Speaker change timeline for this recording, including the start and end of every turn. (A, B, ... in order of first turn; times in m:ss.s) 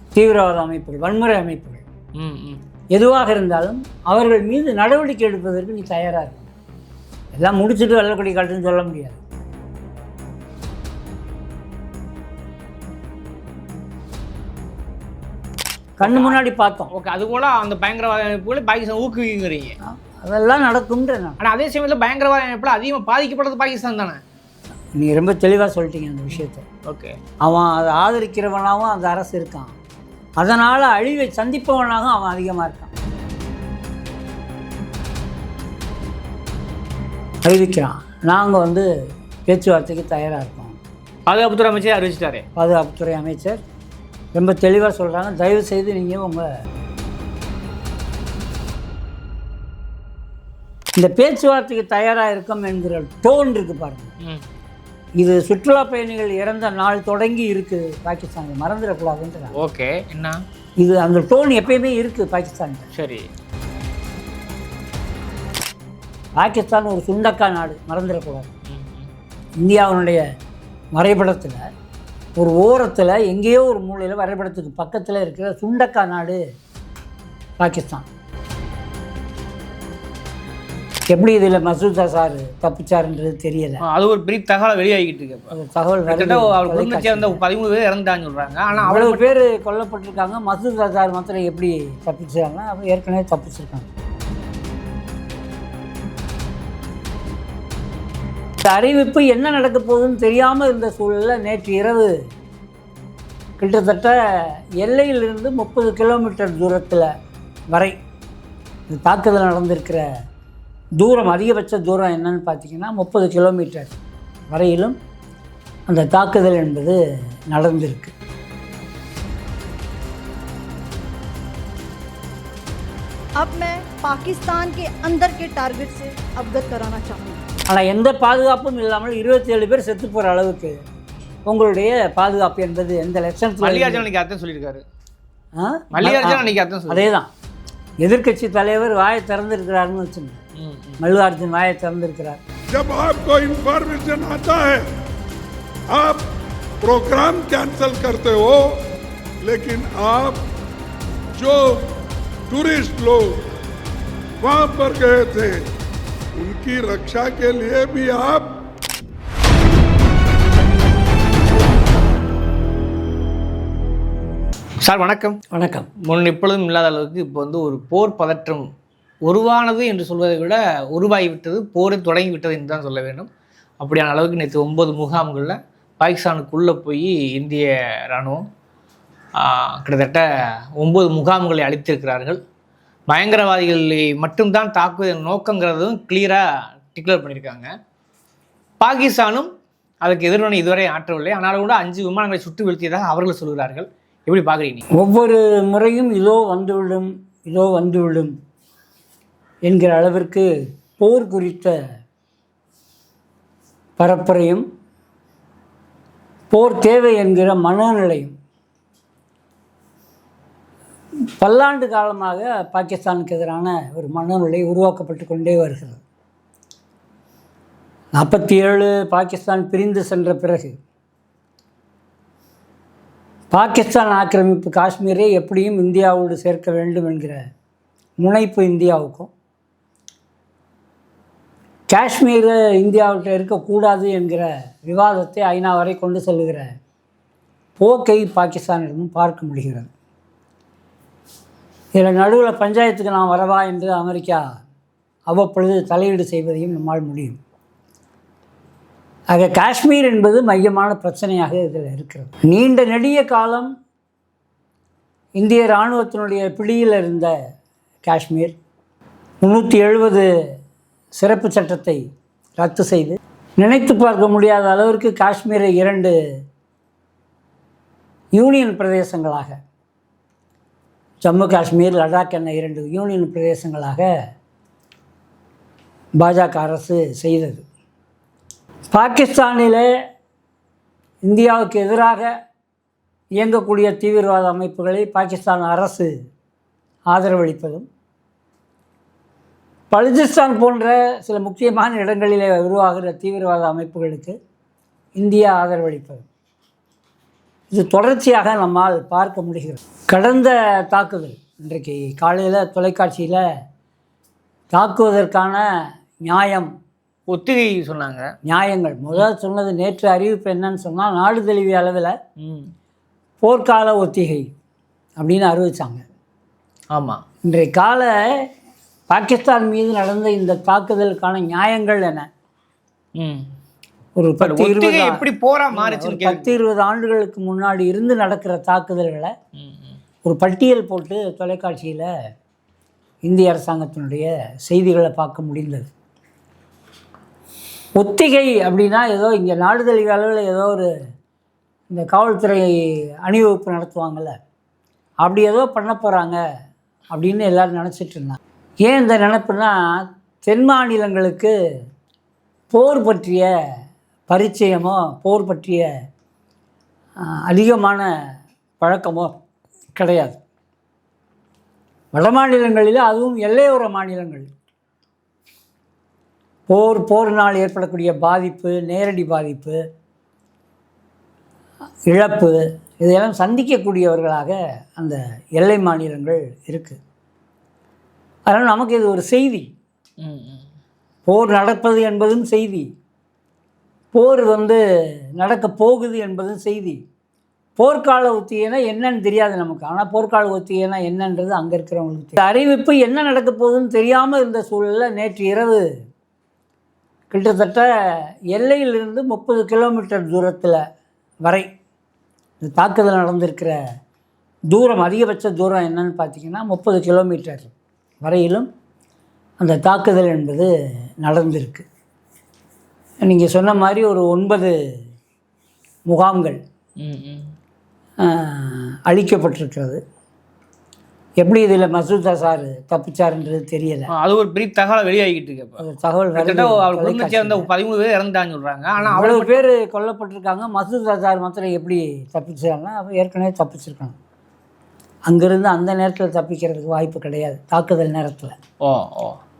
0:00.1-0:01.8 A
0:02.2-0:02.6 B
0:02.9-0:06.5 A
0:07.4-0:09.2 A
0:16.0-0:16.9 A
0:16.0-0:19.8 B
0:19.8-0:21.4 A
0:21.4-0:24.2 B
0:25.0-0:26.6 A
0:26.8-0:27.2 B
0:27.4-0:29.7 A
0:30.4-0:32.9 A
0:37.4-0:38.9 A
0:39.5-0:40.8 A
0:41.3-0:42.4 B
0:42.6-0:43.6 A
0:44.3-0:46.5 A
0:51.0-0:54.1 A
0:55.2-0:59.5 A
0:59.5-1:00.4 B
1:00.8-1:02.9 A
1:02.9-1:03.3 B
1:06.4-1:08.5 A
1:08.7-1:09.1 B
1:09.6-1:10.2 A
1:10.9-1:11.7 A
1:12.4-1:16.4 A
1:17.6-1:18.0 A
1:21.1-1:23.8 A
1:23.8-1:25.5 B
1:25.5-1:27.4 A
1:26.0-1:29.3 B
1:28.8-1:33.9 A
1:38.6-1:42.1 A
1:43.6-1:44.2 A
1:44.8-1:47.1 A
1:48.9-1:50.0 A
1:51.0-1:53.9 A
1:54.5-1:55.0 A
1:55.9-1:57.0 A
1:57.5-1:58.1 A
2:03.4-2:07.4 C
2:07.7-2:10.8 A
2:11.4-2:14.0 A
2:13.6-2:14.8 B
2:15.5-2:17.3 A
2:15.9-2:17.1 B
2:18.0-2:20.4 A
2:20.6-2:21.0 B
2:21.0-2:22.4 A
2:22.7-2:24.9 D
2:25.9-2:26.3 D
2:26.8-2:28.8 D
2:29.4-2:30.4 D
2:31.4-2:31.9 D
2:32.5-2:33.4 D
2:34.4-2:35.6 D
2:36.4-2:38.5 D
2:44.8-2:45.4 B
2:45.5-2:45.9 A
2:46.0-2:48.7 B
2:49.2-2:53.3 B
2:53.8-2:58.4 B
2:59.4-3:02.4 B
3:03.1-3:07.7 B
3:08.8-3:14.8 B
3:14.9-3:18.4 A
3:19.6-3:21.7 A
3:24.0-3:24.6 A
3:26.5-3:28.3 A
3:31.4-3:36.0 A
3:38.1-3:40.8 A
3:43.5-3:47.4 A
3:48.2-3:49.3 A
3:51.9-3:56.7 A
3:57.8-3:59.9 A
4:02.0-4:04.4 A
4:05.3-4:07.4 A
4:09.3-4:13.7 A
4:15.4-4:17.3 A
4:18.0-4:18.5 A
4:19.4-4:20.3 A
4:21.2-4:22.0 A
4:22.6-4:26.2 A
4:28.3-4:29.6 A
4:31.2-4:34.0 A
4:36.2-4:37.6 A
4:38.9-4:39.8 A
4:41.2-4:42.3 A
4:43.4-4:46.1 A
4:47.1-4:47.9 A
4:49.9-4:54.4 A
4:55.2-4:56.2 A
4:57.7-5:03.4 A
5:04.7-5:05.6 A
5:06.2-5:06.7 A
5:07.3-5:08.3 B
5:08.4-5:12.2 A
5:12.4-5:12.7 B
5:13.4-5:14.5 A
5:15.2-5:16.0 A
5:16.9-5:17.2 B
5:17.4-5:18.5 A
5:19.1-5:22.3 A
5:23.2-5:23.5 B
5:24.2-5:29.3 A
5:24.4-5:26.5 B
5:29.6-5:30.0 B
5:30.2-5:32.1 A
5:33.2-5:35.9 A
5:38.0-5:40.9 A
5:41.9-5:44.4 A
5:45.2-5:46.4 A
5:47.1-5:51.5 A
5:52.7-5:53.5 A
5:54.3-5:55.9 A
5:57.2-5:58.1 A
5:58.8-5:59.4 A
5:59.9-6:00.4 A
6:02.1-6:04.5 A
6:06.7-6:09.8 A
6:12.1-6:17.0 A
6:18.5-6:19.7 A
6:20.2-6:20.6 B
6:21.2-6:22.9 A
6:24.1-6:24.8 A
6:25.4-6:27.0 A
6:27.8-6:35.9 A
6:37.3-6:37.9 A
6:38.5-6:40.8 A
6:42.6-6:43.8 A
6:44.7-6:47.7 A
6:48.2-6:48.7 A
6:49.6-6:50.7 A
6:51.2-6:51.8 A
6:53.2-6:54.8 A
6:56.1-6:56.6 A
6:57.0-6:57.5 B
6:58.2-7:00.0 A
7:01.4-7:04.1 A
7:04.1-7:05.8 B
7:05.8-7:07.7 A
7:06.4-7:09.6 B
7:09.0-7:14.1 A
7:15.3-7:18.6 A
7:18.8-7:19.4 B